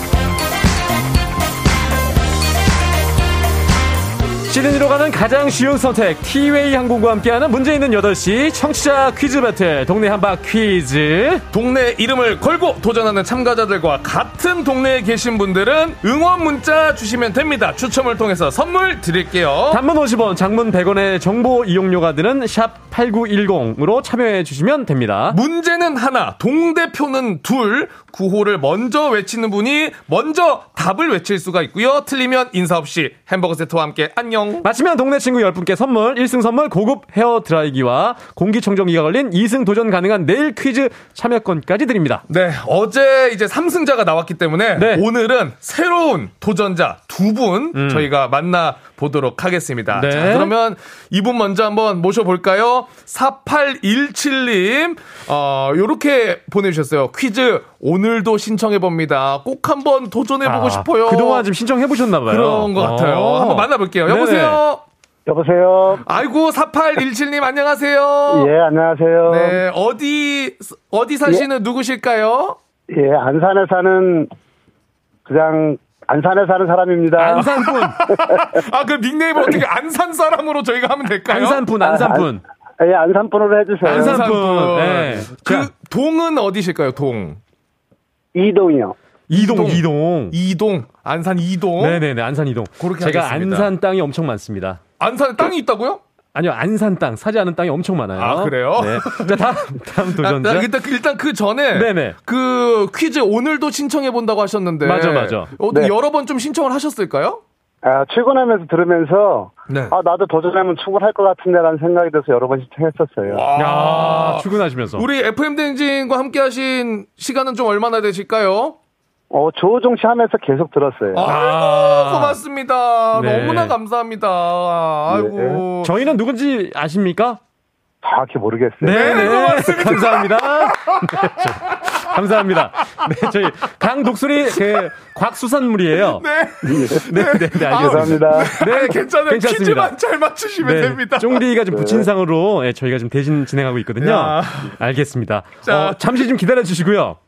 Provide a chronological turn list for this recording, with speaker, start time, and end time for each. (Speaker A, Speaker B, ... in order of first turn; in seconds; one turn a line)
Speaker A: 4.5-11.4
Speaker B: 11.5-19.8
Speaker A: 19.7-25.4
Speaker B: 25.3-34.7
Speaker A: 34.6-42.2
Speaker B: 42.3-61.5
Speaker A: 44.8-45.0
Speaker A: 47.7-48.1
Speaker A: 49.9-50.5
Speaker A: 60.4-64.6
Speaker B: 62.3-64.8
Speaker C: 65.3-66.0
Speaker B: 66.0-68.5
Speaker C: 68.3-69.6
Speaker B: 69.2-72.6
Speaker C: 72.9-74.3
Speaker C: 75.2-78.4
Speaker A: 77.2-78.1
Speaker B: 78.2-81.7
Speaker A: 81.3-82.4
Speaker C: 81.8-84.3
Speaker A: 83.8-85.7
Speaker B: 83.8-87.4
Speaker C: 88.3-89.0
Speaker A: 89.3-90.3
Speaker B: 89.3-92.0
Speaker A: 91.8-94.8
Speaker B: 92.8-93.7
Speaker B: 95.0-96.0
Speaker A: 96.3-100.7
Speaker B: 98.2-107.4
Speaker A: 101.7-102.2
Speaker A: 104.8-105.5
Speaker C: 107.8-113.5
Speaker B: 109.7-109.9
Speaker B: 113.3-118.8
Speaker A: 113.5-115.0
Speaker C: 119.3-121.2
Speaker B: 121.1-126.0
Speaker A: 121.2-122.4
Speaker A: 123.1-123.7
Speaker C: 125.1-125.6
Speaker A: 125.8-127.4
Speaker C: 128.0-129.5
Speaker A: 128.8-136.2
Speaker B: 128.8-131.1
Speaker B: 131.7-132.0
Speaker B: 136.2-141.5
Speaker C: 136.7-138.5
Speaker A: 136.9-139.9
Speaker A: 140.6-147.2
Speaker C: 141.7-142.1
Speaker B: 144.0-144.7
Speaker B: 145.6-146.2